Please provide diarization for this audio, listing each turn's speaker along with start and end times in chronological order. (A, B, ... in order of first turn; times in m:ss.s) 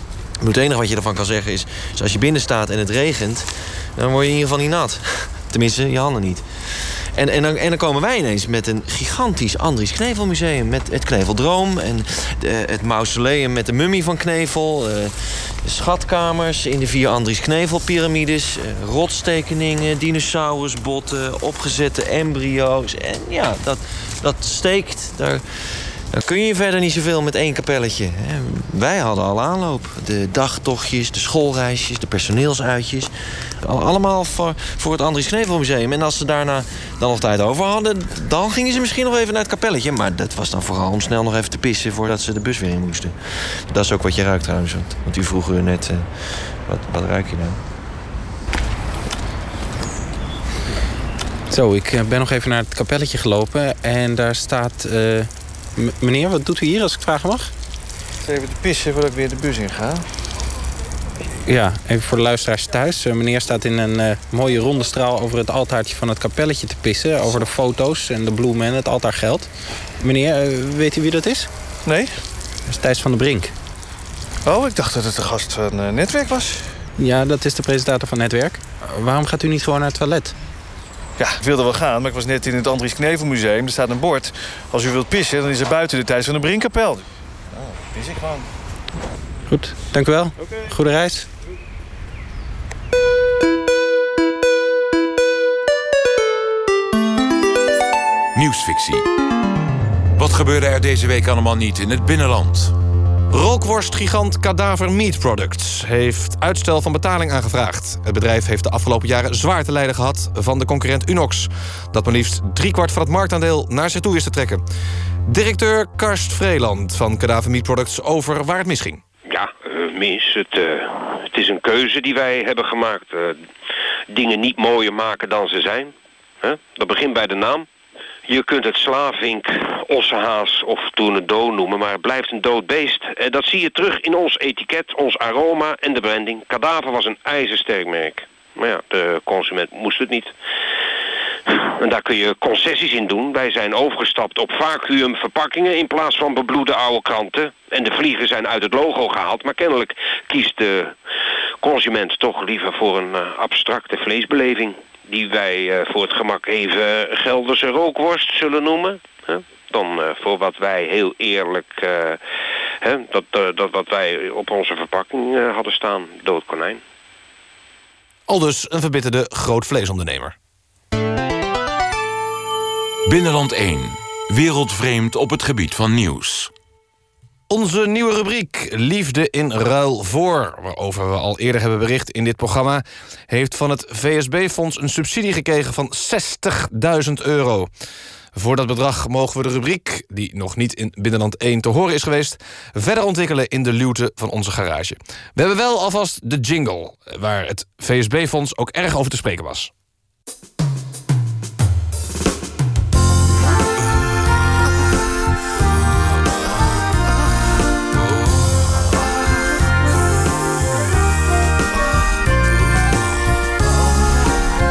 0:00.4-0:47.6 A
0:51.5-0:57.5 B
0:58.3-1:00.0 C
1:01.4-1:11.5 B
1:11.9-1:12.1 C
1:12.6-1:13.5 B
1:14.4-1:16.6 C
1:17.0-1:20.3 B
1:21.2-1:27.0 C
1:27.9-1:28.4 C
1:29.5-1:31.3 B
1:38.3-1:39.1 D
1:40.2-1:42.7 D
1:43.3-1:54.6 E
1:55.3-1:59.0 E
1:59.3-2:03.4 F
2:04.1-2:07.7 F
2:08.3-2:20.3 F
2:21.5-2:31.0 F
2:31.6-2:42.2 F
2:42.8-2:46.8 F
2:48.3-2:50.3 E
2:53.0-2:56.5 D
2:57.5-3:07.7 E
3:08.3-3:19.7 E